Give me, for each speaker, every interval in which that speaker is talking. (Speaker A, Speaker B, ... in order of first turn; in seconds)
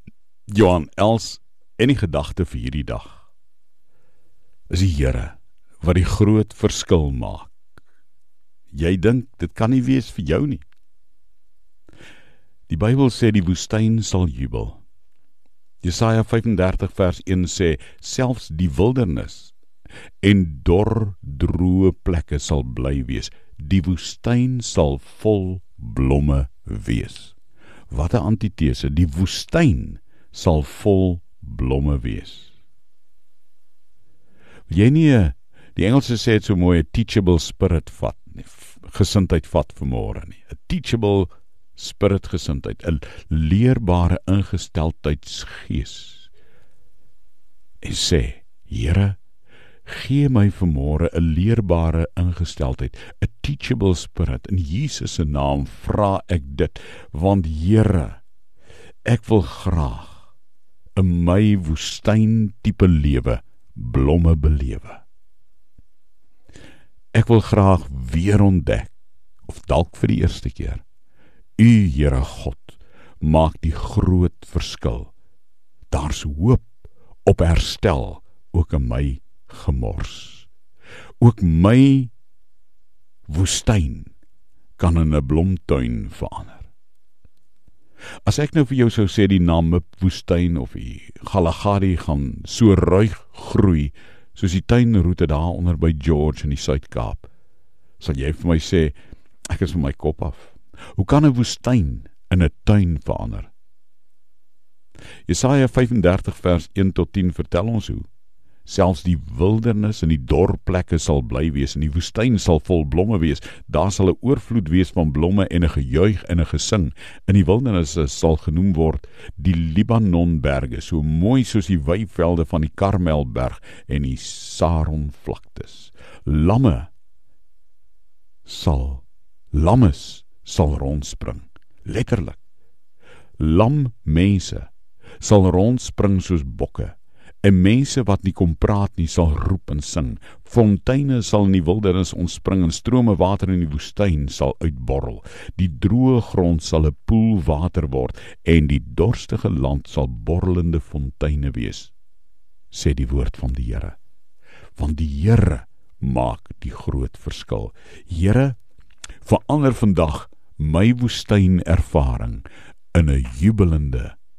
Speaker A: 0.5-3.2, 4.7-7.5, 8.7-10.6, 12.7-14.8, 15.8-19.5, 20.2-27.3, 27.9-32.5, 34.7-46.3, 47.8-49.2, 49.9-58.2, 59.0-60.2, 61.0-65.0, 67.1-68.9, 69.5-70.8, 71.6-75.1, 75.9-76.7, 77.2-80.5, 81.2-82.1, 83.3-84.1, 84.8-86.7, 88.2-97.3, 98.0-98.9, 99.5-103.5, 105.3-108.1, 108.7-126.9, 128.4-132.4, 133.4-151.9, 152.7-154.0, 154.8-158.6, 159.2-164.2